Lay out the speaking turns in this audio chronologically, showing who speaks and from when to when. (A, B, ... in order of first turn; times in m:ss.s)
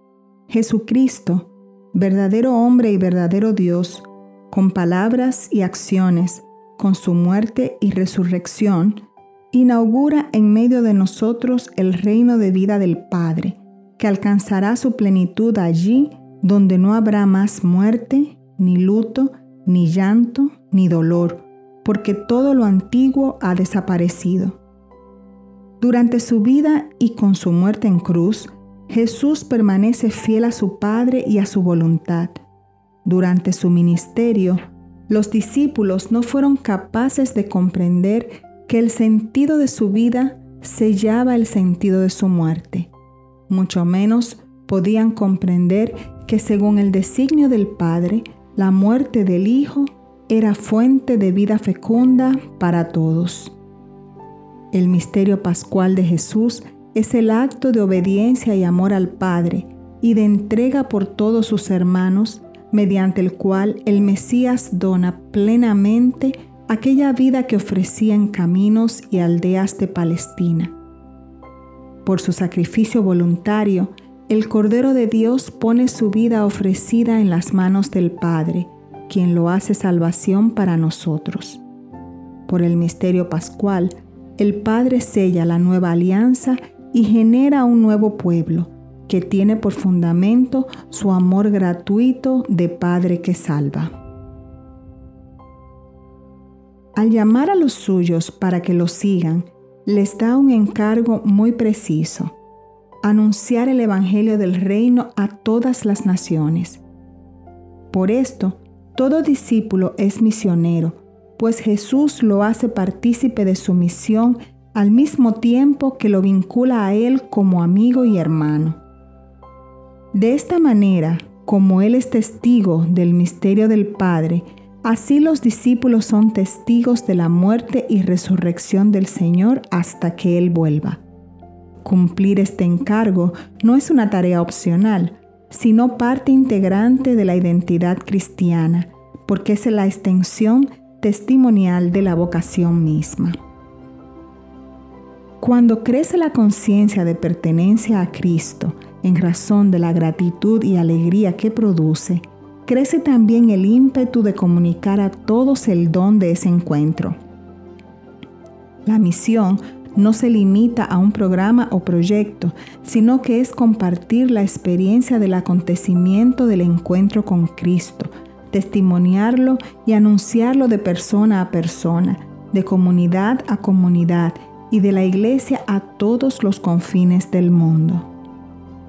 0:00.5-0:24.6 A
0:25.8-0:32.4 A
0:33.0-0:42.9 A
0:43.5-0:53.6 A
0:54.7-1:10.7 A
1:12.0-1:21.6 A
1:22.5-1:34.0 A
1:37.0-1:42.4 A
1:43.0-1:46.8 A
1:47.9-1:58.8 A
2:00.1-2:11.0 A
2:11.8-2:23.4 A
2:25.4-2:37.2 A
2:38.8-2:58.1 A